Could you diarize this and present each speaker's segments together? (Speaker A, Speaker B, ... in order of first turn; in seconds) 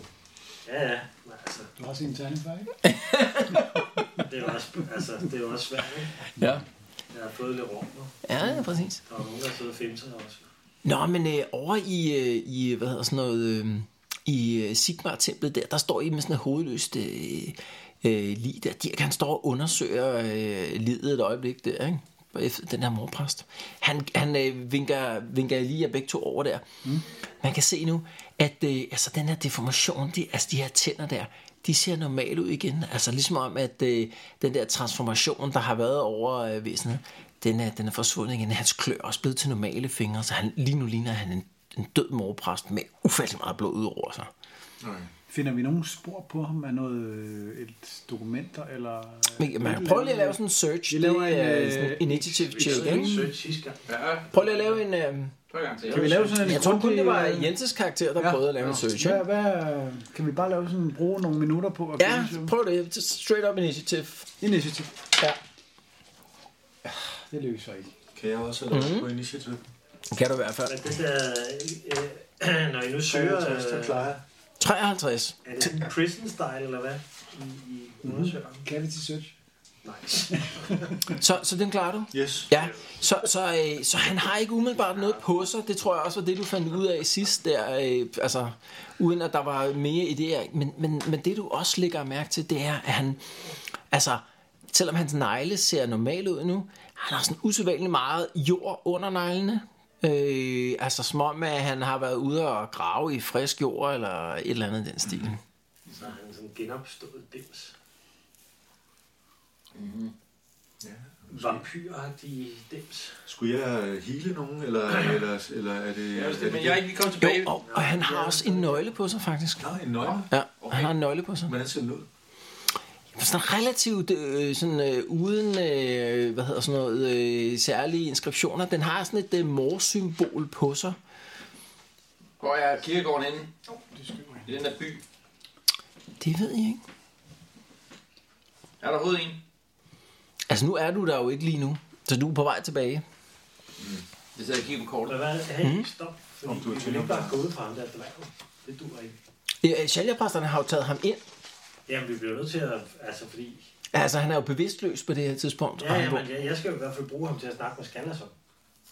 Speaker A: 0.7-1.7, 4.2-6.2, 7.1-8.2, 9.1-10.5, 52.5-54.8, 55.8-56.7, 70.7-74.1, 75.5-78.7, 79.8-81.0, 84.9-85.2, 105.9-107.7, 111.3-113.2, 117.6-119.0, 145.1-149.2, 151.9-153.7, 155.8-158.3
Speaker B: 1.8-2.7, 45.3-53.3, 55.9-57.6, 58.2-62.5, 64.4-65.0, 67.3-67.9, 78.0-79.3, 133.9-134.5
Speaker C: 2.9-3.9, 6.4-6.6, 8.3-9.0, 10.8-26.7, 27.4-44.3, 49.4-53.2, 54.3-55.3, 56.4-59.3, 62.0-64.3, 68.7-69.1, 70.1-70.8, 74.6-75.8, 81.1-93.2, 93.9-105.4, 117.2-119.7, 120.3-121.5, 123.2-131.0, 136.2-136.8, 140.5-143.0, 145.6-145.9, 149.6-151.2, 153.9-156.3
Speaker D: 44.8-45.1, 68.1-69.6, 73.1-74.2, 82.1-82.5, 110.8-111.6, 113.3-116.9, 119.6-120.3, 121.5-122.1, 146.4-147.4
Speaker E: 53.9-54.3, 55.5-56.3, 109.7-110.1, 116.1-117.5, 120.0-121.0, 132.4-133.5, 134.4-135.0, 138.8-139.4, 143.8-145.2